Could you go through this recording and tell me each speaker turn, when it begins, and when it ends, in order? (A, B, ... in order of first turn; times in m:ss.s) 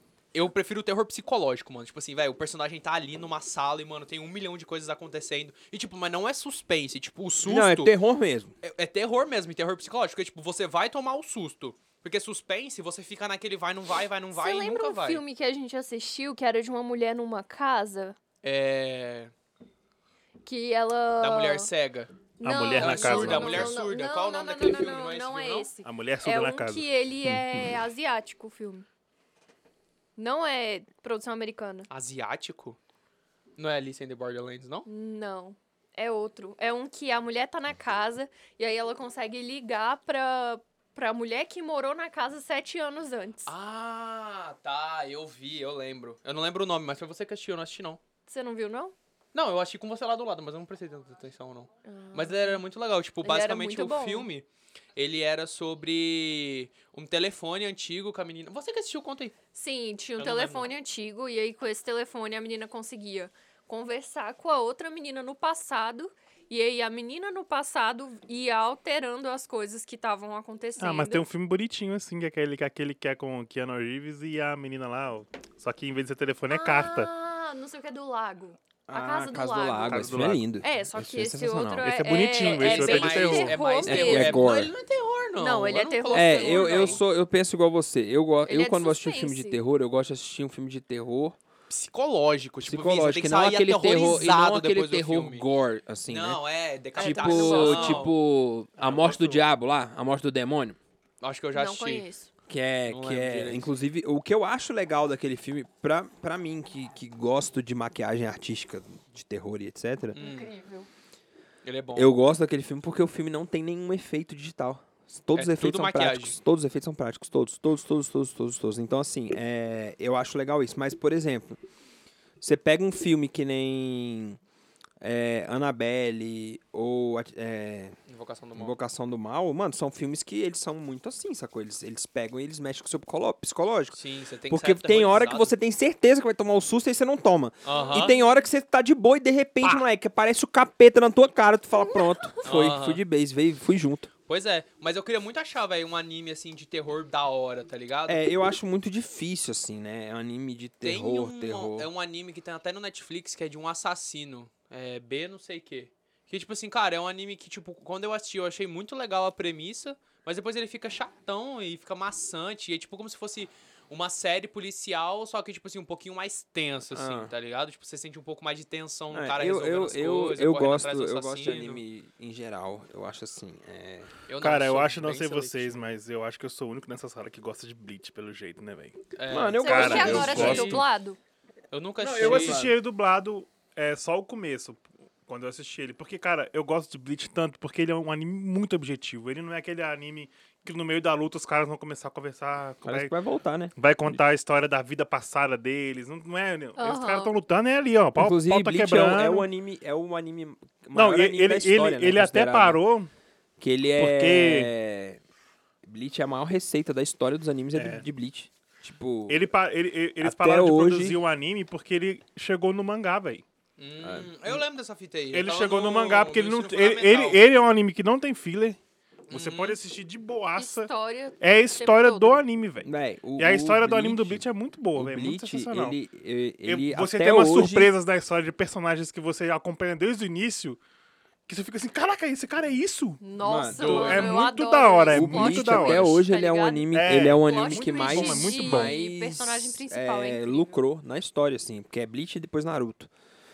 0:00.3-0:07.9 A
0:07.4-0:08.5 B
0:08.6-0:15.2 A
0:14.3-0:18.2 C
0:18.4-0:19.3 A
0:20.4-0:21.7 C
0:21.2-0:22.1 A
0:22.4-0:28.8 C
0:22.4-0:23.8 D
0:22.7-0:25.7 A
0:25.8-0:26.9 D
0:30.2-0:31.9 C
0:31.9-0:32.8 A
0:33.6-0:34.8 A
0:34.8-0:43.5 C
0:43.4-0:48.0 A
0:48.3-0:48.9 C
0:49.3-0:59.3 A
0:51.8-0:52.6 C
0:53.2-0:54.3 C
0:59.5-1:11.2 C
1:00.2-1:00.7 A
1:10.8-1:17.1 D
1:16.5-1:24.5 C
1:18.9-1:21.9 B
1:19.8-1:20.4 D
1:21.8-1:23.6 D
1:22.4-1:27.0 A
1:23.8-1:24.7 B
1:25.4-1:27.0 C
1:26.1-1:31.4 B
1:28.4-1:29.6 C
1:31.7-1:35.5 A
1:32.6-1:36.4 B
1:36.1-1:38.1 A
1:37.0-1:38.1 C
1:37.0-1:40.8 B
1:38.8-1:39.4 D
1:41.2-1:42.1 A
1:41.5-1:42.3 C
1:42.5-1:50.2 B
1:42.9-1:43.8 A
1:50.1-1:50.5 A
1:50.2-1:50.9 C
1:51.6-1:52.2 A
1:52.0-2:01.6 B
1:55.3-1:56.4 A
2:02.4-2:04.4 B
2:05.0-2:08.0 B
2:08.1-2:08.8 A
2:08.5-2:14.0 B
2:13.9-2:15.5 A
2:14.5-2:24.1 B
2:17.6-2:18.1 A
2:17.7-2:18.4 C
2:22.4-2:23.0 A
2:24.3-2:28.2 A
2:28.1-2:31.9 B
2:30.8-2:51.8 A
2:46.9-2:47.3 B
2:49.1-2:54.1 B
2:54.3-2:55.8 A
2:54.4-2:59.0 D
2:59.1-3:00.8 A
2:59.3-3:00.8 B
2:59.6-3:01.2 C
2:59.6-3:00.8 D
3:01.7-3:02.6 A
3:02.0-3:02.8 B
3:02.1-3:13.1 D
3:12.8-3:14.2 B
3:13.8-3:19.5 D
3:16.8-3:17.3 C
3:18.2-3:22.8 B
3:20.9-3:23.1 D
3:23.6-3:25.2 B
3:24.0-3:24.7 D
3:25.8-3:29.4 B
3:27.7-3:28.0 D
3:29.3-3:33.4 D
3:30.2-3:31.2 B
3:33.8-3:37.4 A
3:34.0-3:34.6 B
3:35.3-3:38.8 D
3:39.3-3:39.8 A
3:39.3-3:46.0 D
3:40.6-3:42.4 C
3:42.8-3:47.9 B
3:46.6-3:50.8 D
3:51.5-3:53.2 D
3:53.2-4:00.8 C
3:53.4-3:54.1 B
3:53.8-3:54.4 A
3:53.8-3:56.2 D
3:55.1-4:03.1 B
3:56.9-3:59.0 D